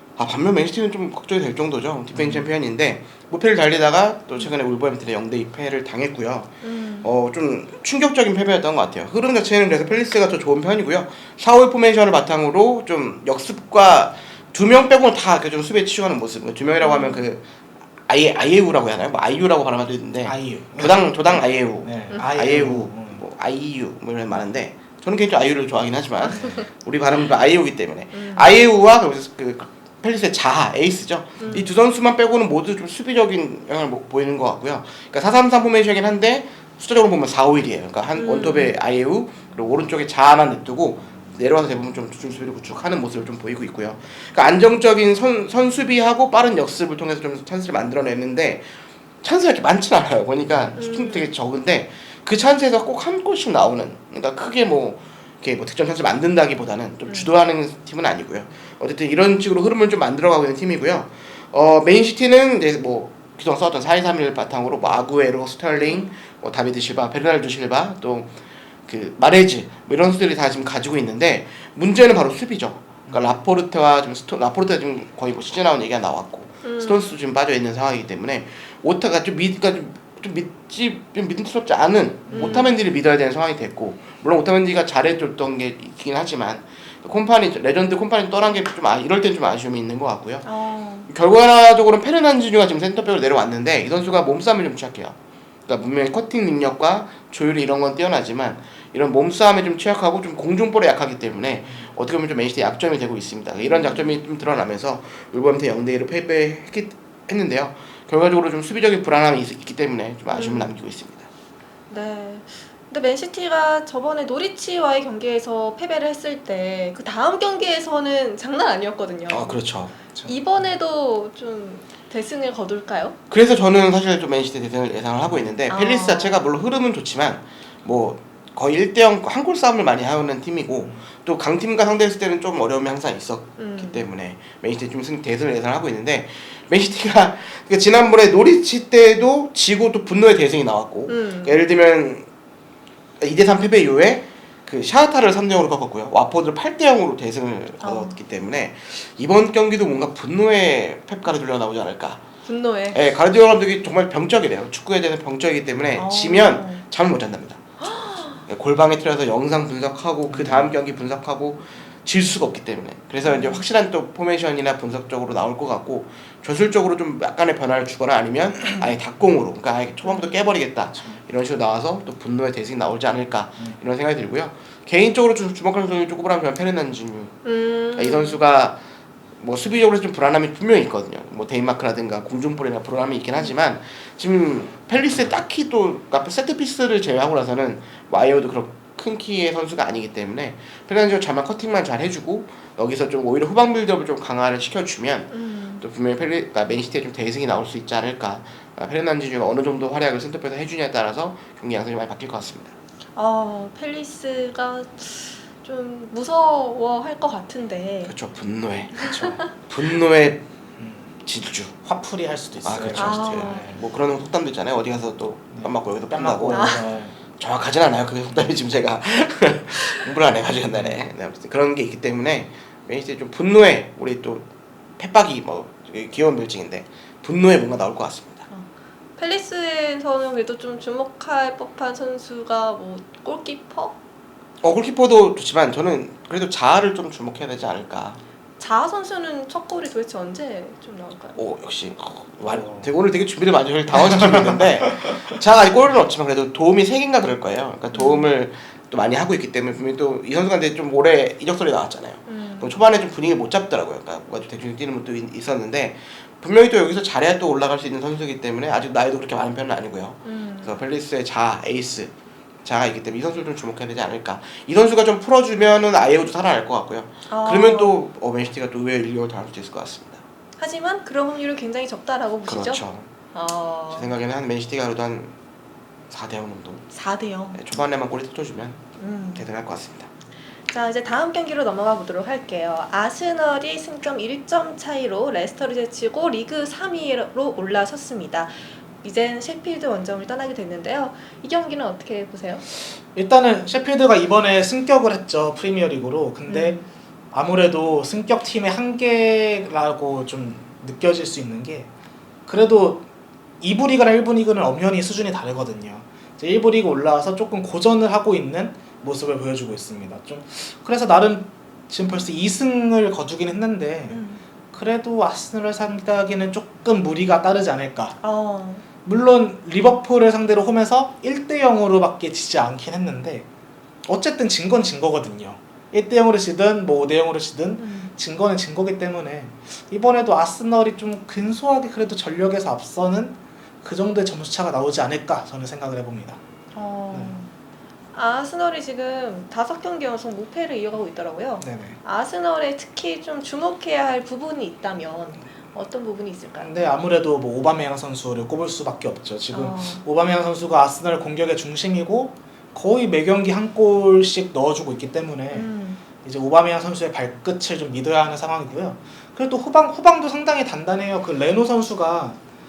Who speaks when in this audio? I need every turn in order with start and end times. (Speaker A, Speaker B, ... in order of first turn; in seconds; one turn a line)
Speaker A: 0.2-17.4
Speaker B: 2.1-2.5
Speaker C: 6.6-7.1
Speaker C: 16.8-17.3
Speaker A: 18.1-48.7
Speaker B: 20.2-23.2
Speaker C: 26.2-26.7
Speaker C: 28.1-28.5
Speaker C: 31.4-31.7
Speaker C: 38.1-38.8
Speaker A: 49.2-68.3
Speaker C: 50.8-51.3
Speaker C: 57.1-57.3
Speaker A: 68.9-90.5
Speaker B: 73.1-73.4
Speaker C: 76.6-77.2
Speaker C: 82.3-82.7
Speaker C: 90.4-91.1
Speaker A: 91.1-95.2
Speaker A: 95.7-111.3
Speaker C: 103.6-104.1
Speaker C: 110.3-110.7
Speaker C: 111.9-119.6
Speaker A: 119.3-120.0
Speaker B: 120.1-120.5
Speaker C: 120.2-123.2
Speaker A: 123.3-142.3
Speaker C: 125.7-126.4
Speaker C: 133.6-134.1
Speaker C: 141.1-141.6
Speaker A: 143.2-152.2
Speaker C: 147.8-148.2
Speaker C: 152.4-153.0
Speaker A: 152.9-157.8
Speaker C: 156.0-156.8
Speaker C: 157.8-158.4
Speaker A: 158.4-177.4
Speaker B: 160.3-160.7
Speaker C: 163.2-163.7
Speaker B: 170.9-171.2
Speaker C: 177.4-178.4
Speaker A: 177.9-178.8
Speaker A: 179.4-202.7
Speaker C: 195.3-195.8
Speaker C: 203.2-208.2
Speaker A: 208.1-210.4
Speaker B: 209.0-209.4
Speaker C: 209.0-209.5
Speaker B: 210.8-211.1
Speaker A: 211.2-211.8
Speaker B: 211.8-213.8
Speaker A: 212.6-224.5
Speaker C: 212.9-213.8
Speaker B: 215.6-217.2
Speaker C: 216.5-216.8
Speaker B: 220.6-221.0
Speaker A: 225.0-228.5
Speaker C: 228.5-234.0
Speaker A: 234.6-238.2
Speaker C: 238.6-241.4
Speaker A: 241.4-262.1
Speaker B: 242.5-242.9
Speaker C: 247.9-248.3
Speaker C: 252.3-252.8
Speaker C: 260.2-260.8
Speaker A: 262.6-270.2
Speaker C: 267.3-268.0
Speaker C: 270.6-272.8
Speaker A: 272.5-273.1
Speaker C: 273.3-274.1
Speaker A: 273.9-275.3
Speaker A: 276.1-276.9
Speaker C: 276.9-277.6
Speaker A: 277.5-278.8
Speaker C: 279.0-279.4
Speaker A: 279.4-280.1
Speaker C: 280.7-292.6
Speaker B: 293.1-296.8
Speaker C: 296.5-296.9
Speaker B: 297.3-301.9
Speaker B: 302.5-303.1
Speaker B: 303.6-318.1
Speaker C: 314.1-314.4
Speaker C: 318.2-318.8
Speaker B: 319.1-323.5
Speaker B: 324.1-336.4
Speaker C: 327.8-328.1
Speaker C: 336.7-337.5
Speaker B: 337.1-337.4
Speaker C: 338.1-346.7
Speaker B: 341.6-342.0
Speaker B: 346.6-355.7
Speaker C: 349.5-350.0
Speaker C: 355.5-356.0
Speaker B: 356.2-362.4